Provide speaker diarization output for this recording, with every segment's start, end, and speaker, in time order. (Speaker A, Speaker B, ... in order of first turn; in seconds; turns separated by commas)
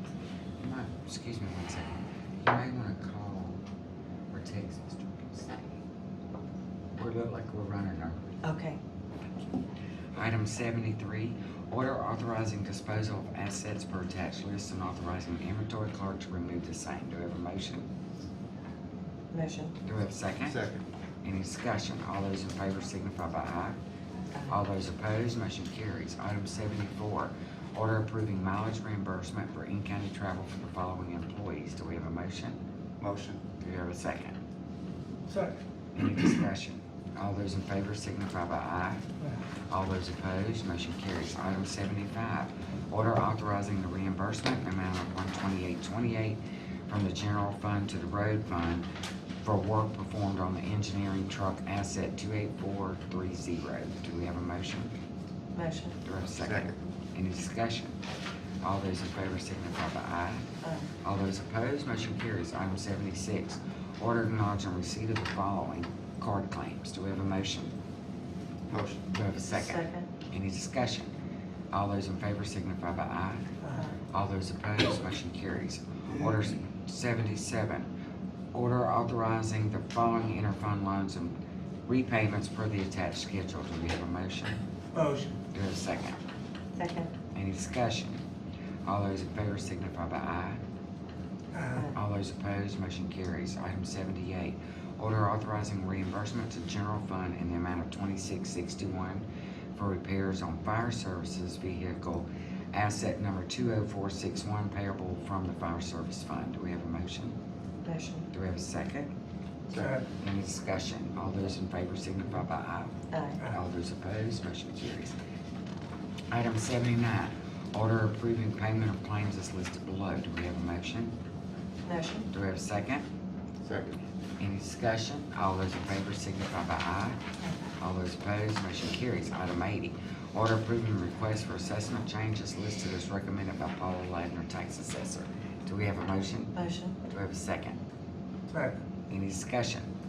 Speaker A: 0.6-3.6, Speaker A: 4.3-5.6, Speaker A: 7.0-8.4, Speaker B: 8.4-8.8, Speaker A: 9.2-9.6, Speaker A: 10.1-17.9, Speaker B: 19.3-19.8, Speaker A: 19.9-20.6, Speaker C: 20.4-20.8, Speaker A: 21.2-23.8, Speaker B: 24.3-24.6, Speaker A: 24.5-32.6, Speaker C: 33.0-33.4, Speaker A: 33.6-34.4, Speaker D: 35.3-35.6, Speaker A: 35.9-39.0, Speaker A: 39.7-48.9, Speaker A: 49.4-54.9, Speaker B: 55.5-56.0, Speaker A: 56.0-58.0, Speaker C: 56.2-56.8, Speaker A: 58.6-60.4, Speaker B: 60.6-60.9, Speaker A: 61.0-67.7, Speaker C: 68.7-69.0, Speaker A: 69.1-71.1, Speaker B: 69.3-70.1, Speaker A: 71.7-73.4, Speaker D: 73.6-73.9, Speaker A: 74.1-77.9, Speaker C: 76.1-76.4, Speaker A: 78.5-81.3, Speaker A: 81.8-84.6, Speaker D: 84.9-85.3, Speaker A: 85.5-86.2, Speaker B: 86.8-87.1, Speaker A: 87.3-88.2, Speaker A: 88.8-90.6, Speaker D: 91.5-91.9, Speaker A: 91.8-107.4, Speaker B: 107.8-108.3, Speaker A: 108.3-109.1, Speaker D: 109.7-110.0, Speaker A: 110.2-113.0, Speaker B: 113.1-113.4, Speaker A: 113.5-115.1, Speaker A: 116.3-121.1, Speaker B: 121.8-122.3, Speaker A: 122.3-123.1, Speaker C: 123.6-124.0, Speaker A: 124.4-127.2, Speaker A: 127.8-137.8, Speaker B: 136.5-137.0, Speaker D: 138.5-138.8, Speaker A: 139.1-139.9